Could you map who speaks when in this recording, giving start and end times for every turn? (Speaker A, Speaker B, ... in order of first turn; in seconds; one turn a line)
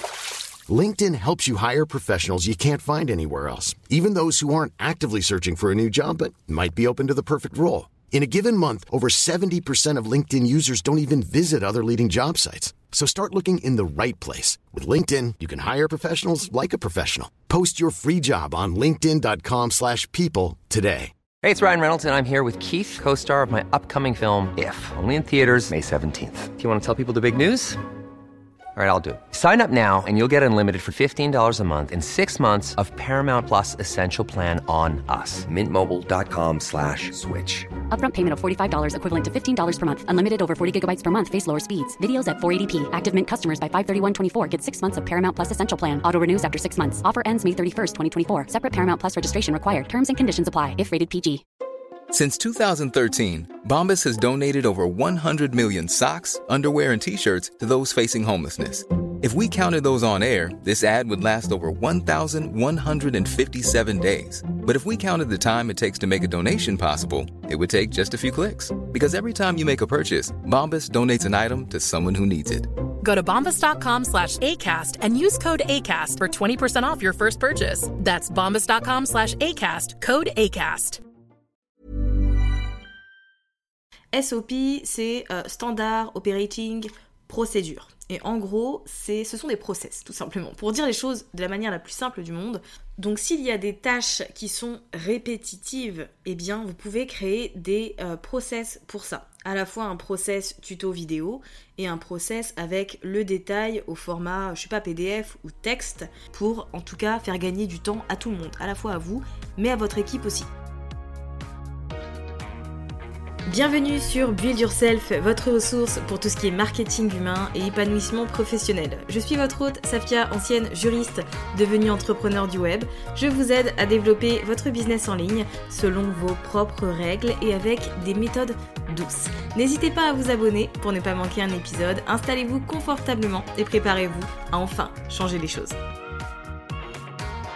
Speaker A: 0.7-21.1
Speaker B: 21.4-27.8
Speaker B: 28.8-37.7
Speaker C: 37.9-51.4
Speaker D: 52.1-72.7
Speaker E: 73.0-81.0
Speaker F: 84.1-110.5
Speaker F: 113.5-135.8